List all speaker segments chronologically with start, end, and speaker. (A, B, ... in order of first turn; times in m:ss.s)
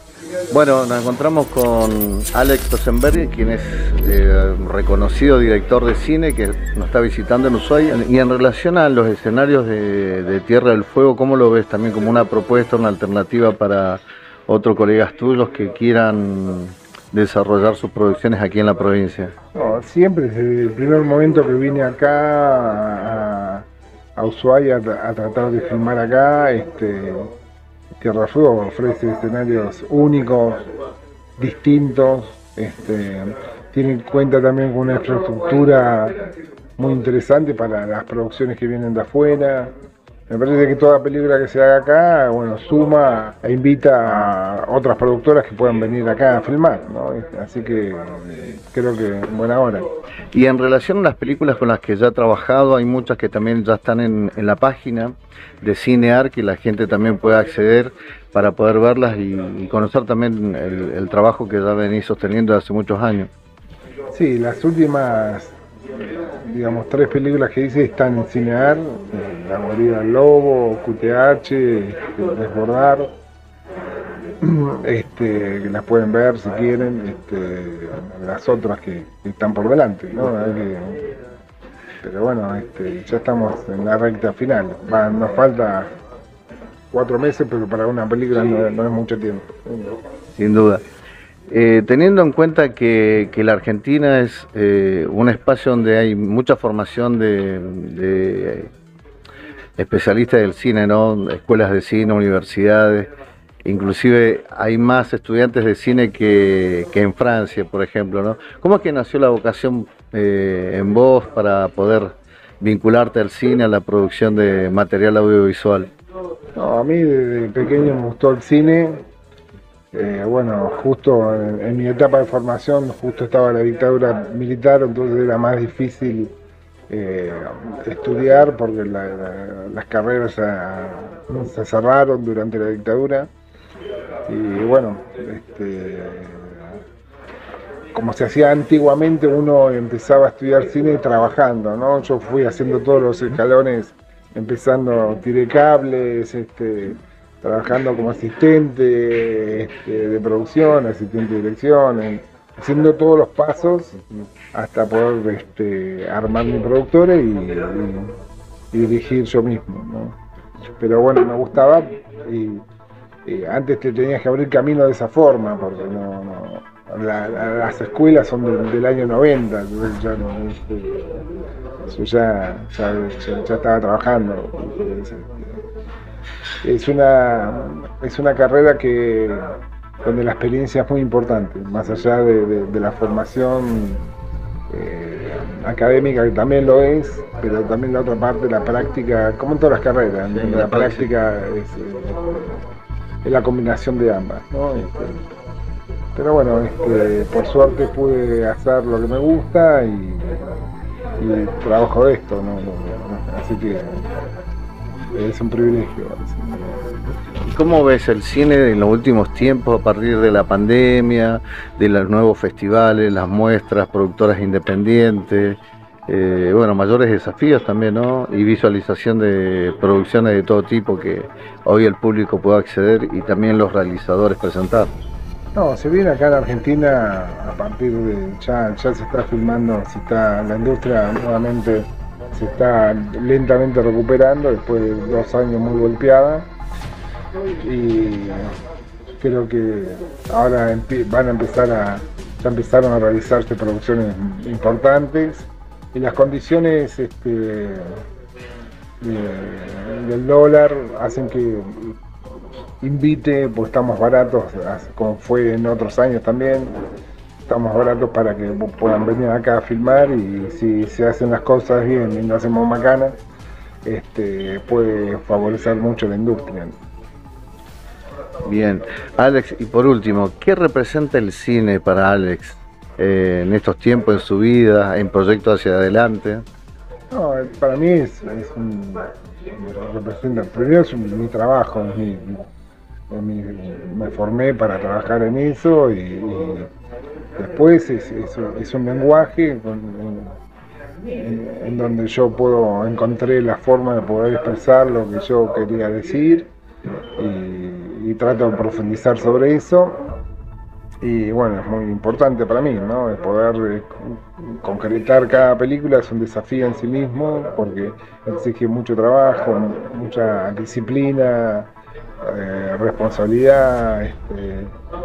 0:00.5-0:19.3 A
0:19.5-0:27.3 B
0:28.0-0:30.6 B
0:31.4-0:36.2 B
0:36.8-0:39.7 B
0:40.3-0:49.9 B
0:50.3-1:03.3 A
1:04.1-1:13.1 B
1:14.4-1:21.1 B
1:22.0-1:25.9 B
1:26.9-1:30.0 B
1:30.4-1:30.8 A
1:31.5-1:38.7 A
1:39.8-1:43.1 A
1:43.6-1:55.9 A
1:56.6-1:59.0 B
1:59.9-2:06.3 B
2:06.9-2:13.3 B
2:14.3-2:16.8 B
2:17.9-2:34.0 B
2:34.5-2:38.1 B
2:38.7-2:40.2 B
2:40.8-2:42.6 B
2:43.2-2:51.2 B
2:51.9-2:55.6 B
2:56.6-3:04.0 B
3:04.7-3:12.6 B
3:10.3-3:11.0 A
3:13.2-3:15.2 B
3:16.1-3:20.6 B
3:21.2-3:24.1 B
3:25.1-3:26.8 B
3:27.4-3:44.9 A
3:45.5-3:56.5 B
3:57.6-3:58.5 B
3:59.2-4:08.0 B
4:09.0-4:12.0 B
4:12.8-4:16.8 B
4:17.5-4:23.2 B
4:23.8-4:26.8 B
4:28.4-4:36.4 A
4:37.1-4:42.5 B
4:43.1-4:46.7 B
4:47.4-4:50.4 B
4:51.1-4:56.5 B
4:57.2-5:00.0 B
5:01.0-5:11.7 B
5:12.2-5:14.7 B